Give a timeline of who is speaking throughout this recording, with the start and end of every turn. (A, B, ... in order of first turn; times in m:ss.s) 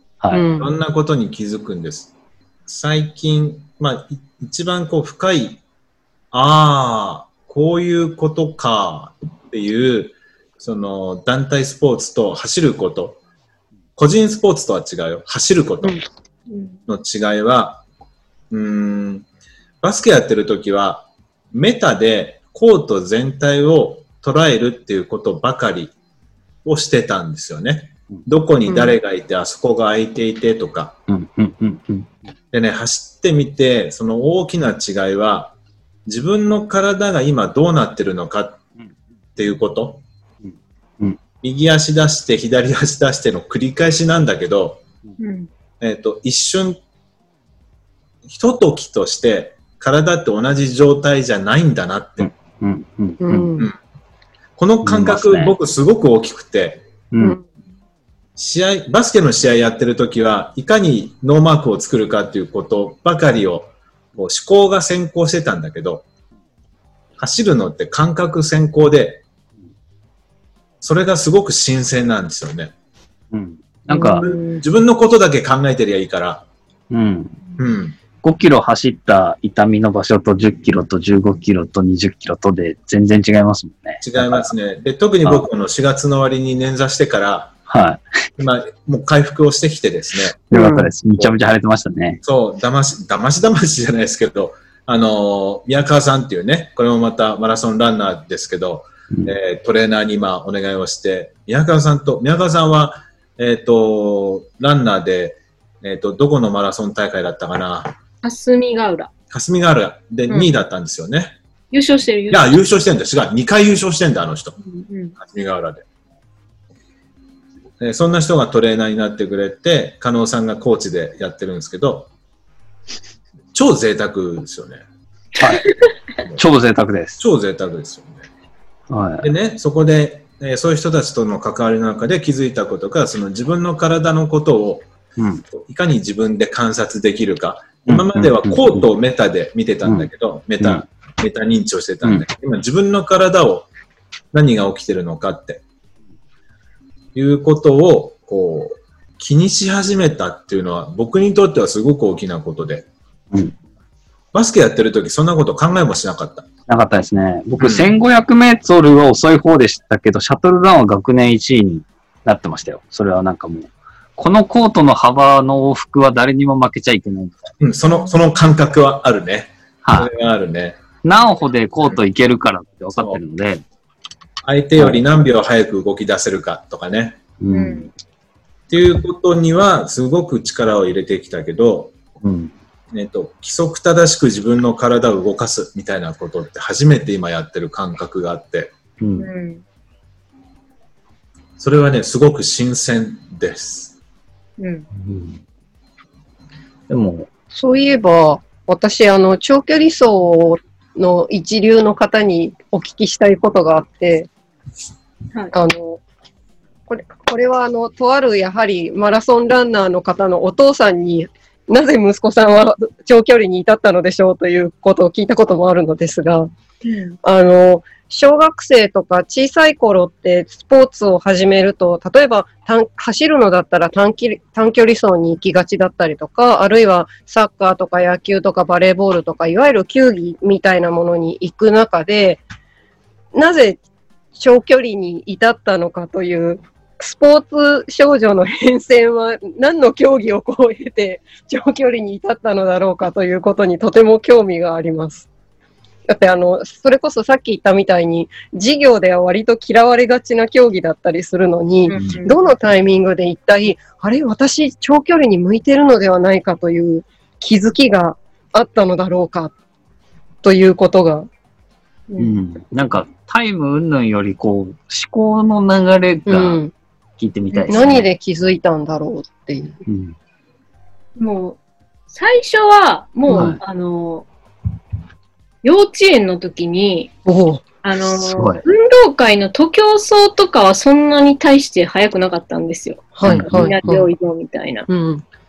0:00.2-0:00.4 A
0:00.3-0:00.7 B
0:00.6-0:02.1 C
0:02.7-0:05.6 C
0:06.3-0:13.2 C
0:14.0-0:16.0 C
0:16.5-0:16.8 D
0:16.9-0:17.8 C
0:18.5-0:19.2 C
0:19.8-0:25.9 C
0:26.6-0:31.0 C
0:28.6-0:29.0 B
0:31.1-0:32.1 A
0:32.5-0:38.6 C
0:39.4-0:40.0 C
0:40.4-0:41.2 A
0:41.4-0:44.8 C
0:45.2-0:45.5 D
0:45.8-0:46.8 C
0:48.3-0:52.3 C
0:52.2-0:53.5 A
0:53.2-0:53.7 B
0:54.6-0:56.9 C
0:54.8-0:55.5 A
0:57.1-0:57.4 A
0:58.4-1:06.0 C
1:07.2-1:09.2 C
1:10.8-1:12.7 C
1:13.3-1:14.2 A
1:13.9-1:14.6 B
1:14.1-1:16.4 C
1:16.9-1:17.4 A
1:17.6-1:18.0 C
1:18.2-1:24.4 A
1:24.0-1:27.6 C
1:27.7-1:28.0 A
1:28.4-1:30.4 C
1:30.5-1:32.2 A
1:30.5-1:30.9 B
1:32.2-1:48.0 C
1:48.2-1:49.1 D
1:49.3-1:51.4 C
1:51.7-1:52.6 D
1:52.3-1:54.6 C
1:54.7-1:55.1 D
1:55.2-1:55.8 C
1:57.8-2:02.1 C
2:03.5-2:04.8 C
2:05.4-2:05.7 A
2:06.4-2:07.2 A
2:07.2-2:08.2 C
2:08.9-2:09.3 A
2:09.2-2:14.8 C
2:15.5-2:23.7 C
2:17.9-2:18.8 A
2:24.3-2:25.6 C
2:27.1-2:32.9 C
2:34.3-2:36.4 C
2:36.7-2:47.5 A
2:37.6-2:37.9 C
2:47.6-2:50.8 C
2:49.8-2:50.1 A
2:51.0-2:53.6 A
2:54.4-2:57.2 C
2:57.4-2:57.9 A
2:57.5-2:57.9 D
2:58.7-3:01.9 C
3:02.2-3:02.5 A
3:02.9-3:08.7 C
3:09.0-3:09.3 A
3:09.2-3:09.6 D
3:11.6-3:13.9 C
3:14.6-3:14.9 D
3:15.0-3:15.4 A
3:16.9-3:17.3 A
3:17.5-3:24.3 B
3:25.5-3:26.0 B
3:26.9-3:36.5 B
3:36.8-3:37.2 D
3:37.2-3:52.4 B
3:53.3-3:53.8 B
3:54.3-4:05.3 B
4:06.1-4:19.5 B
4:11.9-4:12.4 D
4:12.0-4:12.2 A
4:20.4-4:21.3 B
4:22.2-4:26.6 A
4:26.3-4:26.7 B
4:27.2-4:28.0 A
4:27.5-4:29.8 B
4:29.9-4:30.1 A
4:31.2-4:31.6 D
4:32.1-4:34.3 D
4:33.3-4:33.6 A
4:35.6-4:37.1 D
4:37.2-4:37.6 B
4:37.8-4:44.9 D
4:38.4-4:38.6 A
4:43.2-4:44.1 B
4:43.2-4:43.7 A
4:44.9-4:45.2 B